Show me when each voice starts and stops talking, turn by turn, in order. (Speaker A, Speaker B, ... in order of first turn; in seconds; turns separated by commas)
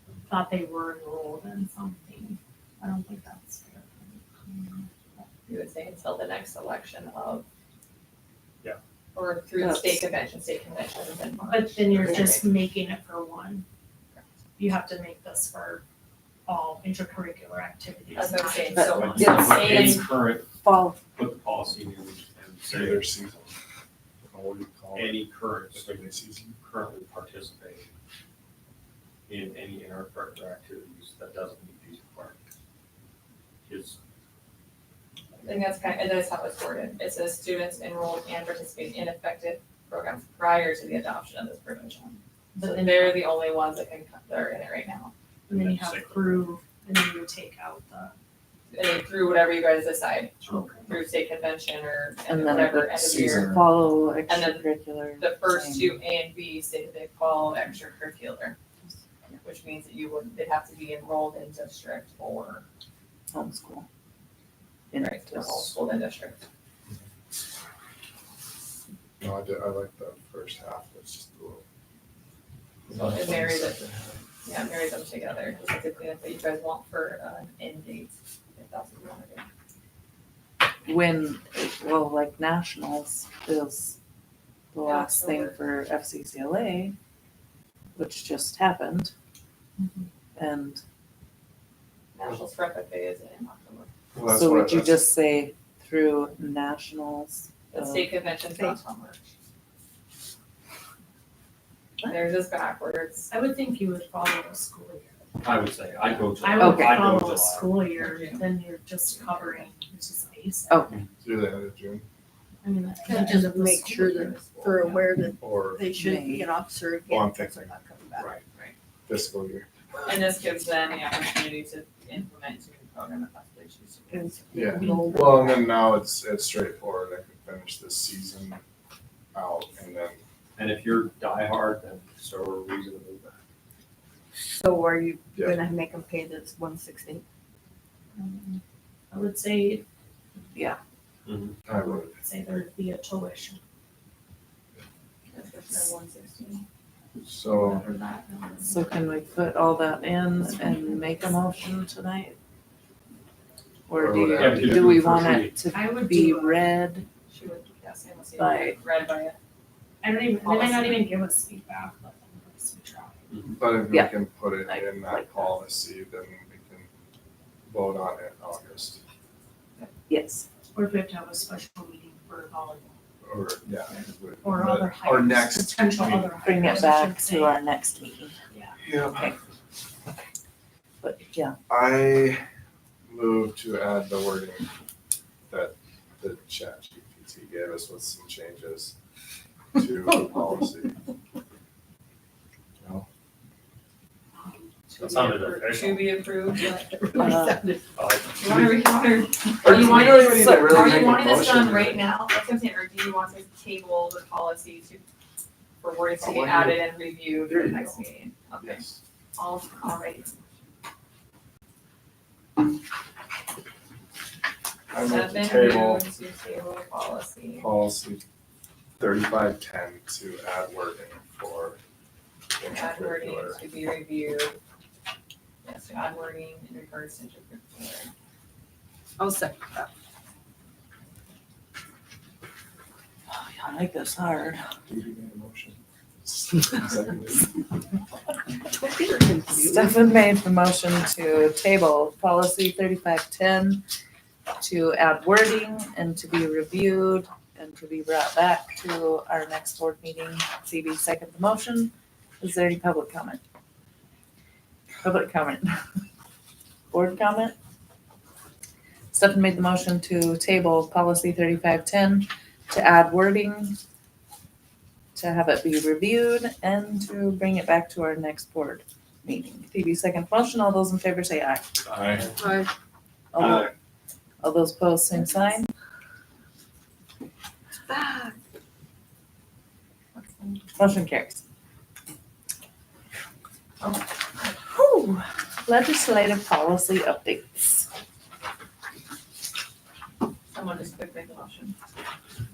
Speaker A: 0.2-5.2, Speaker B: 5.5-7.4, Speaker B: 9.1-12.4, Speaker C: 9.6-10.0, Speaker A: 11.5-13.6, Speaker A: 14.6-15.8, Speaker A: 16.4-19.2, Speaker B: 18.1-20.1, Speaker C: 18.7-20.0, Speaker D: 18.9-20.6, Speaker C: 20.6-21.0, Speaker D: 21.1-23.3, Speaker E: 22.7-23.5, Speaker E: 24.2-26.5, Speaker D: 24.9-27.9, Speaker D: 29.3-32.4, Speaker D: 33.7-34.0, Speaker B: 35.4-45.1, Speaker A: 42.5-43.2, Speaker A: 45.5-48.1, Speaker D: 45.5-46.5, Speaker B: 48.7-53.5, Speaker D: 50.4-50.8, Speaker A: 50.5-50.8, Speaker C: 52.3-56.0, Speaker E: 53.0-53.6, Speaker B: 54.3-54.6, Speaker B: 55.2-58.6, Speaker B: 59.4-62.6, Speaker C: 63.3-63.9, Speaker C: 64.9-65.6, Speaker B: 65.0-66.4, Speaker E: 69.2-71.6, Speaker E: 72.9-74.2, Speaker B: 72.9-73.8, Speaker B: 74.4-79.5, Speaker C: 80.9-84.0, Speaker C: 84.7-86.9, Speaker B: 84.8-85.5, Speaker C: 88.0-89.1, Speaker C: 90.4-90.8, Speaker B: 92.1-93.9, Speaker E: 94.1-95.0, Speaker C: 94.2-98.3, Speaker B: 97.7-99.2, Speaker B: 102.0-103.3, Speaker A: 103.3-105.1, Speaker D: 105.4-107.9, Speaker A: 106.4-110.9, Speaker C: 106.6-107.0, Speaker B: 108.0-108.4, Speaker B: 109.1-109.7, Speaker E: 111.2-112.0, Speaker A: 112.6-114.4, Speaker F: 113.0-118.3, Speaker B: 114.5-115.0, Speaker E: 115.4-115.9, Speaker C: 115.9-116.5, Speaker E: 117.1-117.7, Speaker B: 118.2-118.7, Speaker E: 119.1-119.7, Speaker B: 120.0-125.0, Speaker F: 124.1-125.8, Speaker E: 124.5-128.6, Speaker E: 129.3-130.2, Speaker D: 130.6-133.4, Speaker F: 134.4-137.2, Speaker A: 138.1-139.8, Speaker D: 141.2-141.6, Speaker E: 141.6-142.1, Speaker A: 142.0-143.6, Speaker B: 145.3-146.6, Speaker E: 147.2-147.8, Speaker A: 147.7-148.8, Speaker C: 148.7-152.3, Speaker C: 153.9-157.1, Speaker E: 153.9-155.4, Speaker D: 154.4-155.6, Speaker A: 155.7-156.6, Speaker B: 157.3-159.4, Speaker C: 158.4-158.8, Speaker A: 160.0-163.3, Speaker B: 160.2-161.1, Speaker E: 163.6-166.9, Speaker C: 163.9-165.5, Speaker E: 167.7-169.0, Speaker C: 170.1-170.4, Speaker A: 170.7-173.0, Speaker E: 173.2-176.3, Speaker A: 174.4-177.6, Speaker C: 176.4-178.3, Speaker A: 178.5-178.8, Speaker E: 178.8-179.3, Speaker C: 179.1-179.3, Speaker C: 181.0-181.6, Speaker E: 181.7-182.4, Speaker E: 183.1-184.7, Speaker E: 185.5-188.9, Speaker E: 189.7-190.9, Speaker E: 192.8-193.1, Speaker B: 194.9-197.3, Speaker D: 194.9-196.4, Speaker F: 196.8-197.9, Speaker C: 197.2-197.6, Speaker D: 197.9-198.7, Speaker B: 198.4-205.0, Speaker E: 199.6-202.1, Speaker B: 205.8-208.8, Speaker E: 206.2-206.8, Speaker E: 207.4-208.0, Speaker E: 208.6-208.9, Speaker B: 209.4-210.3, Speaker E: 214.9-216.0, Speaker B: 214.9-217.7, Speaker E: 217.6-218.2, Speaker E: 219.0-221.8, Speaker E: 222.6-223.6, Speaker B: 222.7-224.6, Speaker B: 225.6-228.1, Speaker F: 229.2-229.9, Speaker C: 233.3-234.6, Speaker E: 234.9-237.5, Speaker F: 238.7-240.1, Speaker C: 239.6-243.8, Speaker C: 244.6-253.4, Speaker C: 255.0-255.7, Speaker C: 256.9-257.5, Speaker C: 259.1-263.8, Speaker C: 265.1-271.6, Speaker E: 271.9-272.2, Speaker D: 271.9-272.2, Speaker F: 272.4-272.7, Speaker C: 273.3-273.7, Speaker C: 274.4-275.7, Speaker F: 277.9-278.4, Speaker B: 280.1-280.7, Speaker C: 280.8-281.4, Speaker B: 283.8-284.5, Speaker C: 284.7-287.9, Speaker B: 290.5-291.8